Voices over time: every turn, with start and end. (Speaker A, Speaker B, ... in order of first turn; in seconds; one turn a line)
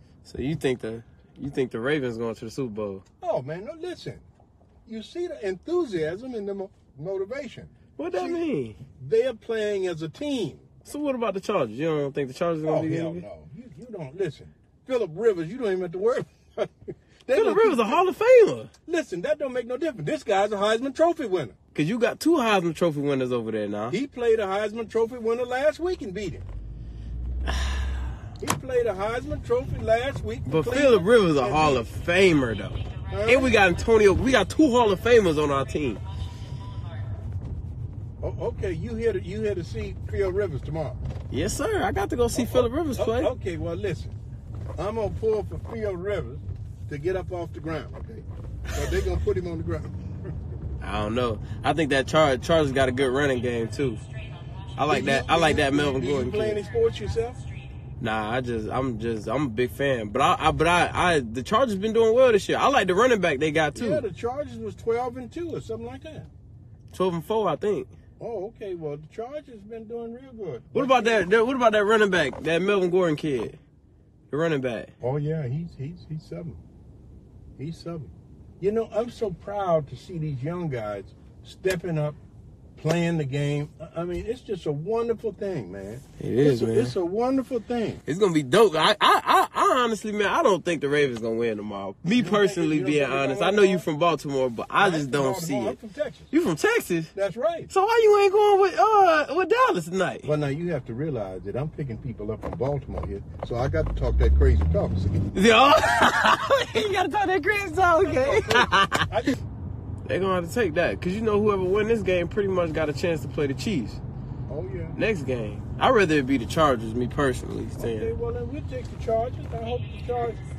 Speaker A: 0.2-3.0
Speaker B: 3.2-4.2
Speaker B: 4.9-10.7
Speaker A: 8.0-8.8
Speaker A: 10.8-13.2
Speaker B: 12.7-18.0
Speaker A: 17.3-18.7
Speaker B: 18.9-21.6
Speaker A: 21.7-24.0
Speaker B: 23.9-26.5
Speaker A: 27.5-27.9
Speaker B: 28.4-31.8
Speaker A: 30.5-36.0
Speaker B: 33.1-33.5
Speaker B: 38.2-41.0
Speaker A: 41.3-43.3
Speaker B: 42.3-44.2
Speaker B: 44.8-50.0
Speaker A: 50.8-54.0
Speaker A: 54.8-56.6
Speaker B: 54.9-57.4
Speaker A: 58.0-64.0
Speaker B: 63.8-66.3
Speaker A: 66.9-67.9
Speaker B: 68.2-71.3
Speaker A: 70.7-73.6
Speaker A: 74.3-74.9
Speaker B: 75.0-76.6
Speaker B: 77.6-82.2
Speaker B: 82.8-88.0
Speaker A: 86.2-87.0
Speaker A: 88.1-95.8
Speaker B: 92.1-93.9
Speaker B: 94.8-96.3
Speaker A: 96.3-97.1
Speaker B: 97.2-97.7
Speaker A: 97.7-100.3
Speaker B: 100.2-105.3
Speaker A: 105.3-109.1
Speaker B: 108.0-109.4
Speaker A: 110.1-114.0
Speaker B: 114.5-115.0
Speaker A: 115.0-118.1
Speaker B: 117.8-120.4